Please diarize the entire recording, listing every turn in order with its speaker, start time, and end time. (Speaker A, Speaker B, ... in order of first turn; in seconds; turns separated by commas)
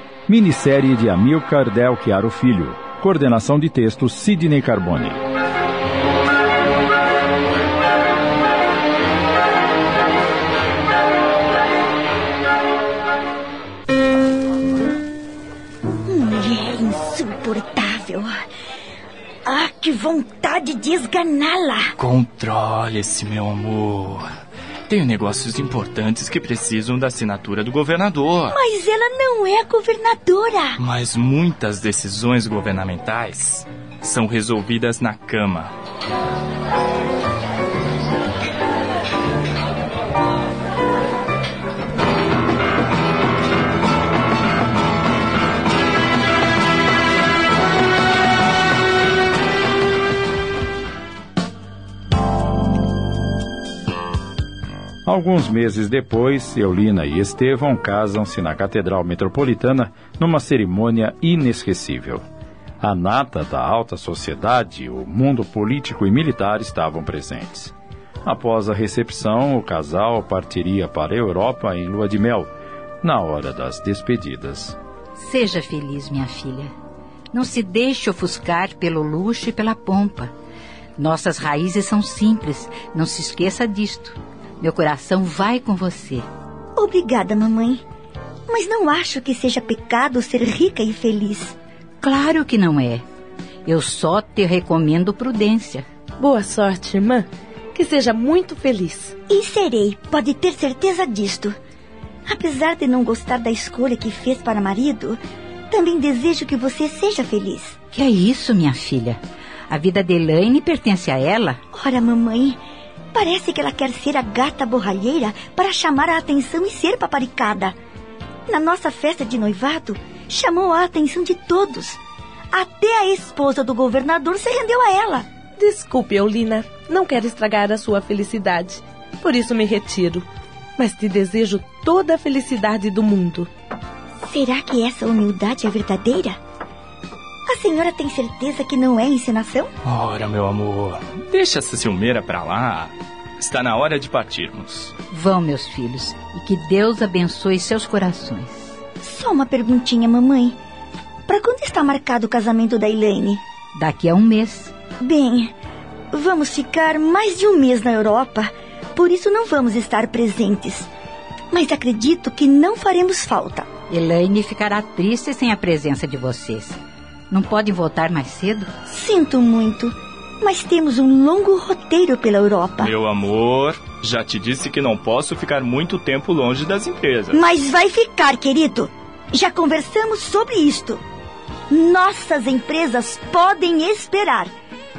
Speaker A: 0.3-5.2, Speaker B: 16.1-18.3, Speaker B: 19.5-21.9, Speaker C: 22.0-24.4, Speaker C: 24.9-28.6, Speaker B: 28.5-30.8, Speaker C: 30.8-35.7, Speaker A: 55.1-62.2, Speaker A: 62.8-67.7, Speaker A: 68.2-72.5, Speaker A: 73.0-74.8, Speaker D: 75.2-76.7, Speaker D: 77.3-80.3, Speaker D: 81.0-86.3, Speaker B: 86.8-87.8, Speaker B: 88.5-91.5, Speaker D: 92.0-93.0, Speaker D: 93.7-95.9, Speaker E: 96.2-99.2, Speaker B: 99.3-101.6, Speaker B: 102.3-107.8, Speaker D: 107.9-109.2, Speaker D: 109.7-111.6, Speaker B: 111.7-112.6, Speaker B: 113.1-117.8, Speaker B: 118.5-122.0, Speaker B: 122.5-125.3, Speaker E: 125.6-130.3, Speaker E: 130.8-133.5, Speaker B: 134.3-136.4, Speaker B: 137.5-139.7, Speaker C: 139.8-144.9, Speaker D: 145.1-148.8, Speaker B: 149.0-150.6, Speaker B: 151.3-153.4, Speaker D: 153.8-154.7, Speaker B: 155.0-155.5, Speaker B: 156.1-160.9, Speaker B: 161.5-163.7, Speaker D: 163.9-166.8, Speaker D: 167.3-168.7, Speaker B: 168.9-172.9, Speaker C: 172.8-177.4, Speaker B: 177.3-181.1, Speaker B: 181.7-184.5